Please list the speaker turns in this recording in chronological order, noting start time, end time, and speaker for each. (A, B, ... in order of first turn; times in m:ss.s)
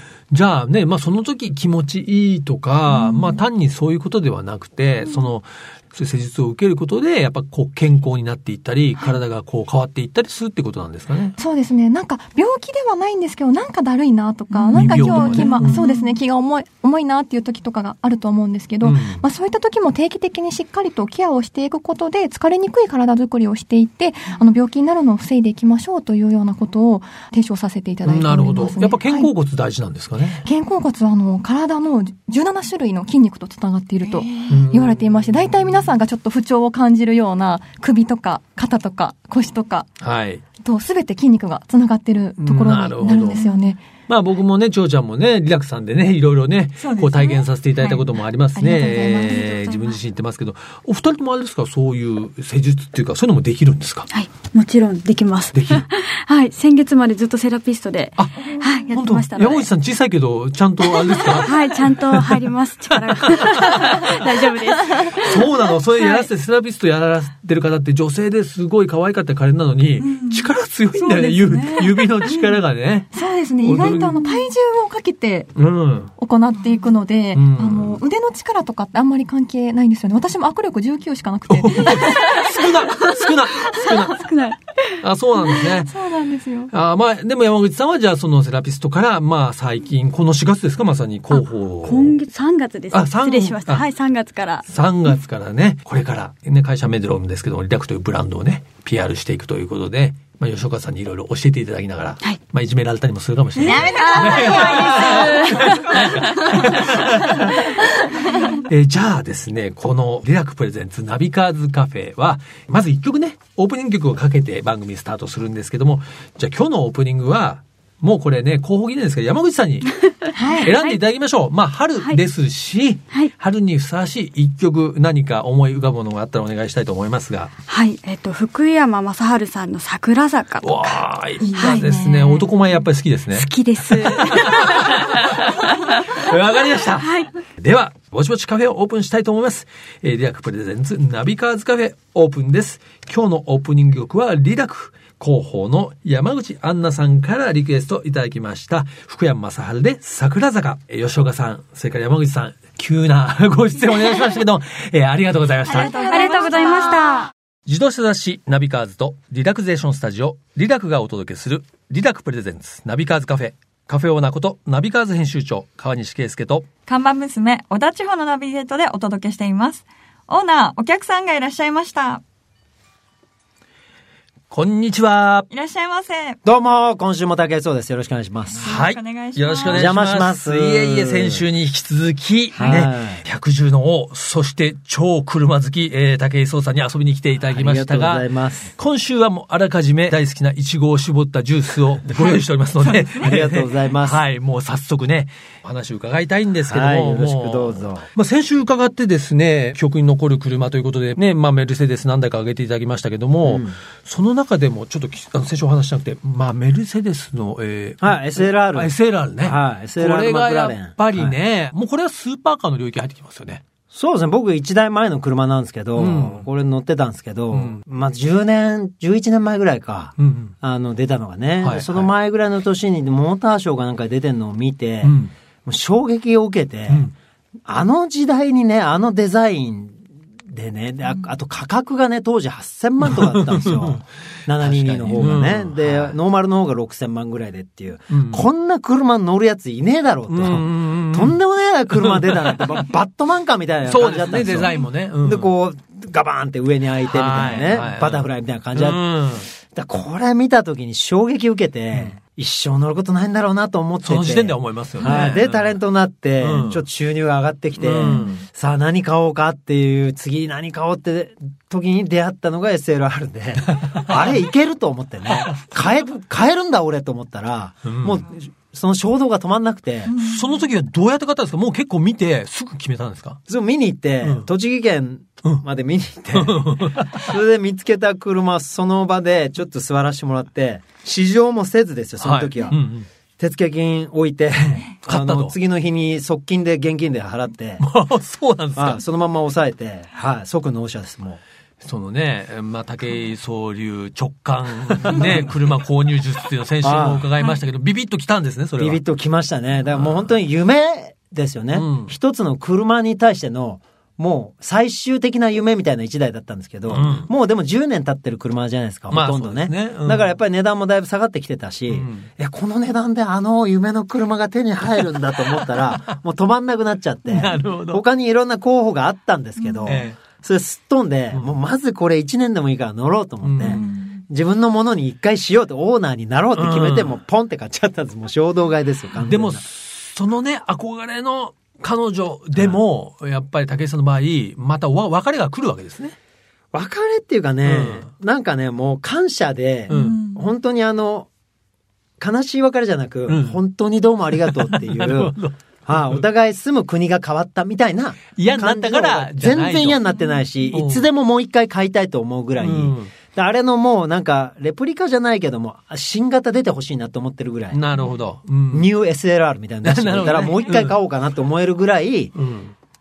0:00.3-0:11.4 A
0:11.4-0:29.3 B
0:14.5-0:16.2 C
0:14.7-0:15.8 A
0:18.8-0:19.2 A
0:28.0-0:30.5 A
0:30.4-0:39.9 B
0:34.5-0:35.7 A
0:40.0-0:40.4 A
0:40.6-0:43.8 B
0:42.4-0:43.4 A
0:43.1-0:43.6 C
0:44.1-0:54.1 A
0:46.8-0:48.0 C
0:48.6-0:49.8 B
0:54.1-0:59.7 D
0:55.5-0:55.9 A
0:58.2-1:02.3 A
1:00.9-1:05.5 D
1:02.9-1:04.3 A
1:05.1-1:14.2 A
1:10.0-1:10.4 C
1:11.4-1:11.8 C
1:13.1-1:15.5 B
1:15.6-1:16.1 A
1:16.2-1:22.5 B
1:17.3-1:18.0 A
1:21.5-1:24.2 A
1:22.2-1:22.4 D
1:23.7-1:25.0 D
1:25.0-1:26.1 A
1:25.6-1:26.7 B
1:26.7-1:32.2 A
1:31.3-1:34.7 D
1:32.9-1:33.8 A
1:34.7-1:47.6 A
1:43.7-1:45.3 B
1:43.7-1:47.0 D
1:43.7-1:45.7 C
1:48.6-1:59.9 A
2:00.2-2:01.0 D
2:00.4-2:00.7 B
2:00.6-2:07.5 A
2:07.7-2:11.0 D
2:10.6-2:36.0 A
2:11.4-2:12.4 B
2:11.5-2:12.0 D
2:13.3-2:16.3 D
2:17.0-2:17.3 D
2:35.7-2:37.1 B
2:35.7-2:37.2 C
2:35.8-2:37.3 D
2:37.7-2:46.7 A
2:46.9-2:52.2 C
2:54.5-2:55.5 A
2:55.5-2:56.4 C
2:56.4-2:58.7 E
2:58.6-2:59.9 C
2:58.6-3:33.6 A
2:59.7-3:01.4 E
3:02.5-3:03.2 E
3:07.5-3:08.7 E
3:13.2-3:14.2 E
3:16.7-3:18.1 E
3:23.4-3:23.8 E
3:28.0-3:31.4 E
3:33.9-3:47.1 E
3:36.0-3:36.4 A
3:37.5-3:37.8 A
3:40.2-3:40.5 A
3:41.6-3:42.1 A
3:45.0-3:45.3 A
3:47.7-3:50.0 E
3:50.5-4:09.0 E
3:53.1-3:54.0 A
3:54.6-3:56.2 A
3:58.1-3:58.4 A
4:00.3-4:01.4 A
4:01.9-4:02.8 A
4:03.8-4:05.5 A
4:07.1-4:09.5 A
4:09.6-4:30.1 E
4:14.0-4:15.7 A
4:16.4-4:16.8 A
4:17.8-4:18.4 A
4:23.8-4:24.2 A
4:27.8-4:28.2 A
4:30.1-4:30.4 C
4:30.1-4:33.4 A
4:33.5-4:42.8 E
4:36.3-4:37.3 A
4:42.2-4:43.1 A
4:43.4-4:47.9 E
4:45.0-4:45.6 A
4:47.8-4:49.0 A
4:48.8-4:51.4 E
4:51.8-4:59.0 A
4:55.0-4:55.5 E
4:56.8-4:57.3 E
4:58.8-5:29.6 E
4:59.9-5:00.2 A
5:01.7-5:02.1 A
5:06.9-5:07.3 A
5:09.1-5:10.3 A
5:11.9-5:12.3 A
5:15.5-5:16.1 A
5:17.3-5:18.0 A
5:19.8-5:20.2 A
5:23.4-5:23.9 A
5:23.8-5:24.0 C
5:26.6-5:27.2 A
5:29.2-5:36.2 A
5:32.6-5:32.8 E
5:36.7-5:41.3 E
5:37.6-5:38.1 A
5:39.9-5:40.2 A
5:39.9-5:40.4 C
5:42.2-5:45.4 E
5:43.3-5:43.6 A
5:44.4-5:46.2 A
5:45.9-5:57.8 E
5:48.4-5:50.0 A
5:50.7-5:51.1 A
5:52.6-5:53.1 A
5:57.7-5:58.9 A
5:58.7-6:02.4 E
5:59.8-6:01.0 A
6:02.4-6:02.7 A